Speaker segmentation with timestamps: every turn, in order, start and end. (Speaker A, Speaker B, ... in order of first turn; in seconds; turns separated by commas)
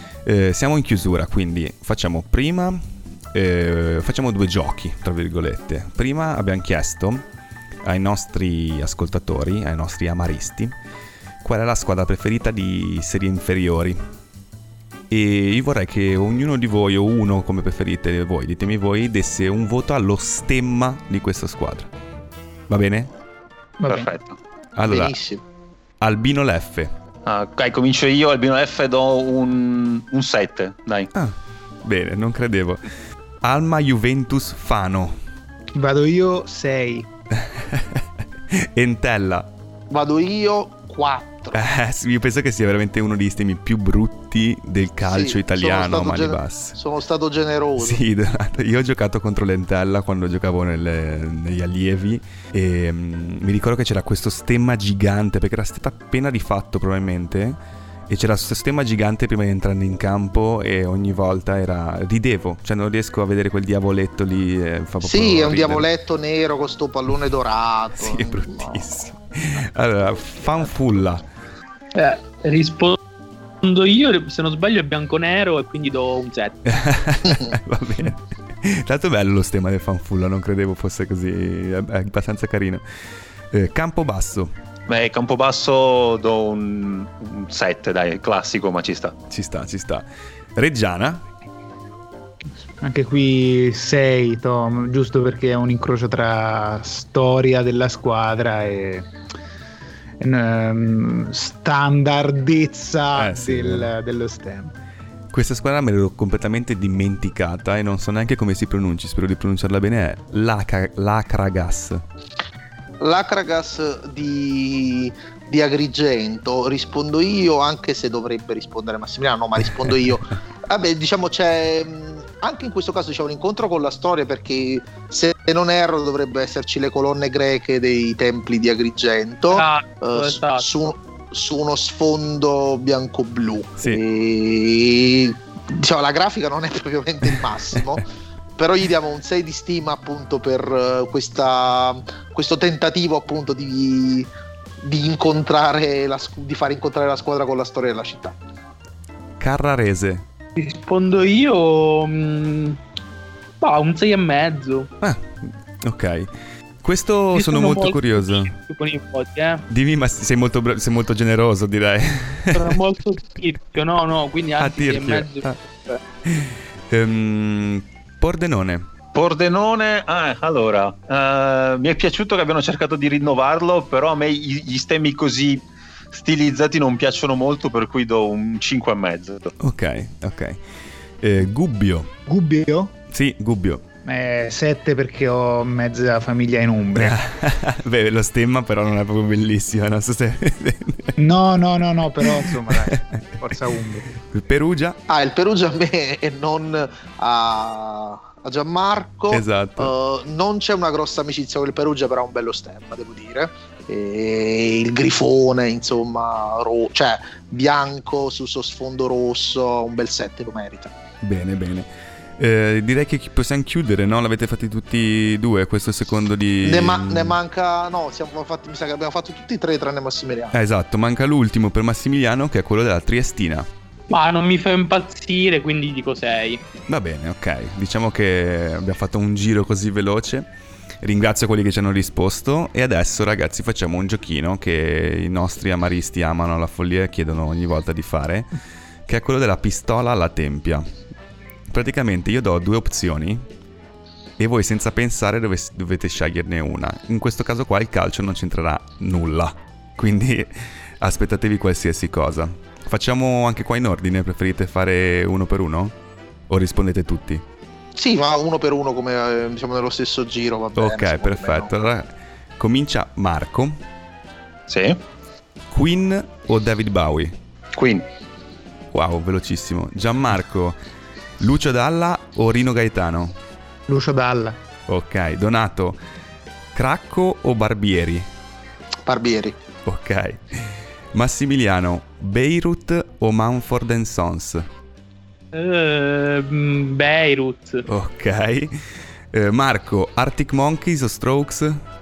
Speaker A: 0.2-7.2, Speaker A: 7.8-10.7, Speaker A: 11.4-14.0, Speaker A: 15.1-21.9, Speaker A: 22.7-23.1, Speaker B: 23.8-24.1, Speaker C: 23.9-24.4, Speaker A: 24.8-25.2, Speaker D: 24.8-25.4, Speaker A: 26.0-26.9, Speaker C: 27.2-31.1, Speaker A: 31.1-32.8, Speaker A: 33.4-35.2, Speaker B: 35.7-37.1, Speaker A: 37.4-39.5, Speaker D: 39.9-41.6, Speaker A: 41.5-46.8, Speaker D: 45.1-48.0, Speaker A: 47.8-65.8, Speaker D: 65.0-68.9, Speaker A: 68.0-71.2, Speaker E: 71.9-73.0, Speaker E: 73.6-76.7, Speaker A: 76.7-82.8, Speaker D: 77.2-77.5, Speaker A: 83.5-84.5, Speaker C: 84.9-89.2, Speaker A: 89.3-91.2, Speaker B: 92.8-99.1, Speaker B: 100.2-104.7, Speaker A: 103.1-103.9, Speaker A: 105.3-112.0, Speaker D: 113.0-138.1, Speaker E: 129.5-130.9, Speaker D: 138.6-144.3, Speaker D: 144.8-148.3, Speaker A: 149.4-150.2, Speaker E: 150.6-152.8, Speaker E: 153.6-154.9, Speaker A: 155.0-156.3, Speaker A: 156.8-158.5, Speaker E: 157.3-159.6, Speaker A: 159.7-162.8, Speaker E: 162.5-166.0, Speaker A: 164.6-165.6, Speaker A: 166.2-168.9, Speaker C: 169.1-179.5, Speaker A: 179.6-180.6, Speaker A: 181.2-182.1, Speaker B: 182.3-182.9, Speaker A: 183.1-183.8, Speaker B: 184.0-187.2, Speaker A: 186.9-191.2, Speaker B: 191.2-194.1, Speaker A: 192.2-193.6, Speaker A: 194.1-195.0, Speaker D: 195.1-210.9, Speaker A: 199.3-199.9, Speaker A: 211.2-217.4, Speaker D: 216.6-220.6, Speaker A: 220.5-223.7, Speaker E: 224.1-226.6, Speaker A: 226.9-230.5, Speaker A: 231.0-238.5, Speaker A: 239.1-240.9, Speaker A: 241.7-243.4, Speaker A: 244.4-255.9, Speaker A: 256.5-257.4, Speaker D: 257.9-261.7, Speaker A: 260.8-263.8, Speaker C: 264.7-265.0, Speaker A: 265.7-267.3, Speaker C: 267.8-268.1, Speaker A: 268.9-270.8, Speaker A: 271.4-273.4, Speaker B: 273.9-274.6, Speaker A: 274.9-276.0, Speaker A: 276.7-278.2, Speaker D: 279.0-279.6, Speaker A: 279.8-284.6, Speaker E: 285.5-287.8, Speaker A: 287.9-288.7, Speaker A: 289.3-291.8